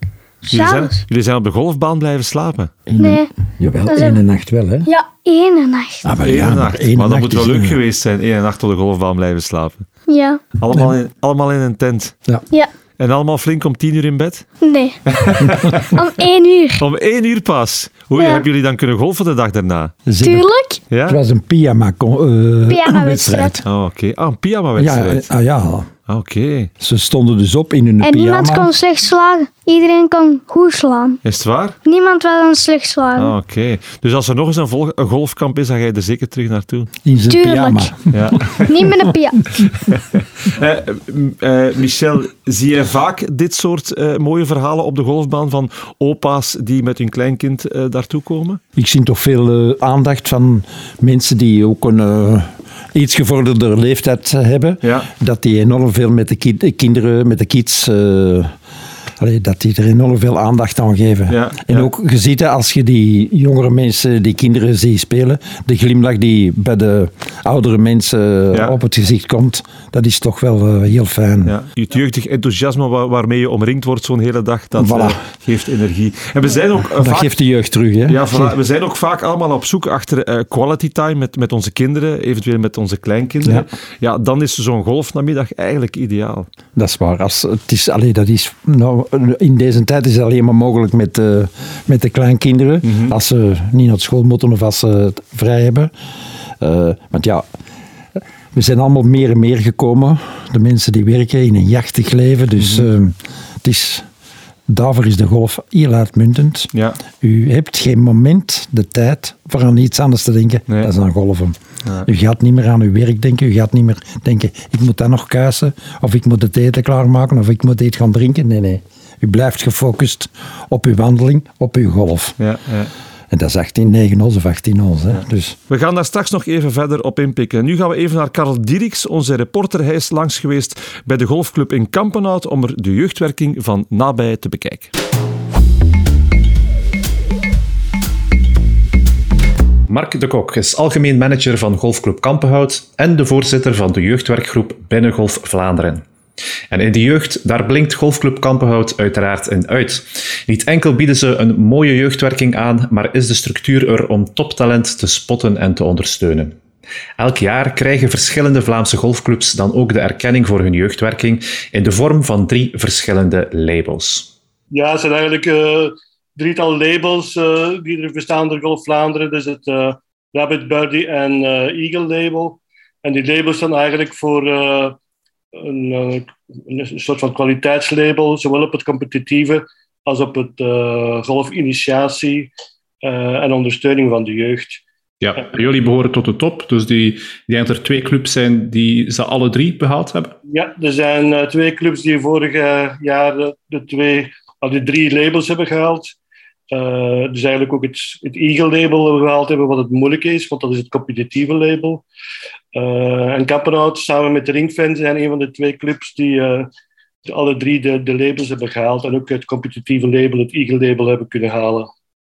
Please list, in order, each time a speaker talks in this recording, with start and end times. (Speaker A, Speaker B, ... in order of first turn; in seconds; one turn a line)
Speaker A: 0.4-1.0
Speaker B: 0.5-2.8
Speaker C: 2.9-4.9
Speaker A: 3.0-3.3
Speaker A: 3.9-4.2
Speaker A: 4.8-6.0
Speaker C: 6.0-7.8
Speaker B: 6.2-9.9
Speaker A: 10.1-10.4
Speaker B: 10.6-12.1
Speaker B: 13.0-14.4
Speaker A: 14.6-16.8
Speaker B: 15.1-16.0
Speaker B: 16.8-19.9
Speaker A: 18.2-18.4
Speaker C: 20.1-20.4
Speaker A: 20.2-20.8
Speaker B: 20.9-21.2
Speaker C: 21.1-23.6
Speaker A: 22.7-23.6
Speaker B: 23.6-25.3
Speaker C: 24.8-25.9
Speaker B: 26.1-26.7
Speaker C: 26.8-28.7
Speaker A: 28.0-31.2
Speaker B: 31.2-31.8
Speaker A: 31.8-33.3
Speaker B: 33.1-36.9
Speaker C: 37.0-38.7
Speaker A: 37.3-39.5
Speaker B: 38.1-38.8
Speaker B: 39.7-48.6
Speaker C: 48.8-58.5
Speaker B: 54.8-55.1
Speaker C: 59.2-71.5
Speaker B: 61.3-61.9
Speaker B: 71.4-77.3
Speaker C: 74.8-75.2
Speaker C: 76.9-78.5
Speaker B: 78.1-86.5
Speaker C: 86.8-95.9
Speaker B: 92.8-93.2
Speaker C: 96.6-97.5
Speaker C: 98.5-104.0
Speaker B: 102.6-102.9
Speaker C: 104.7-122.4
Speaker B: 106.7-107.0
Speaker B: 122.4-122.9
Speaker C: 123.3-125.6
Speaker B: 125.7-134.9
Speaker D: 139.9-146.0
Speaker D: 146.7-156.6
Speaker D: 157.2-164.3
Speaker E: 164.7-175.0
Speaker E: 175.5-182.5
Speaker E: 183.0-184.8
Speaker F: 185.2-190.3
Speaker E: 190.5-196.1
Speaker E: 196.7-202.0
Speaker E: 202.7-206.7
Speaker E: 207.2-211.9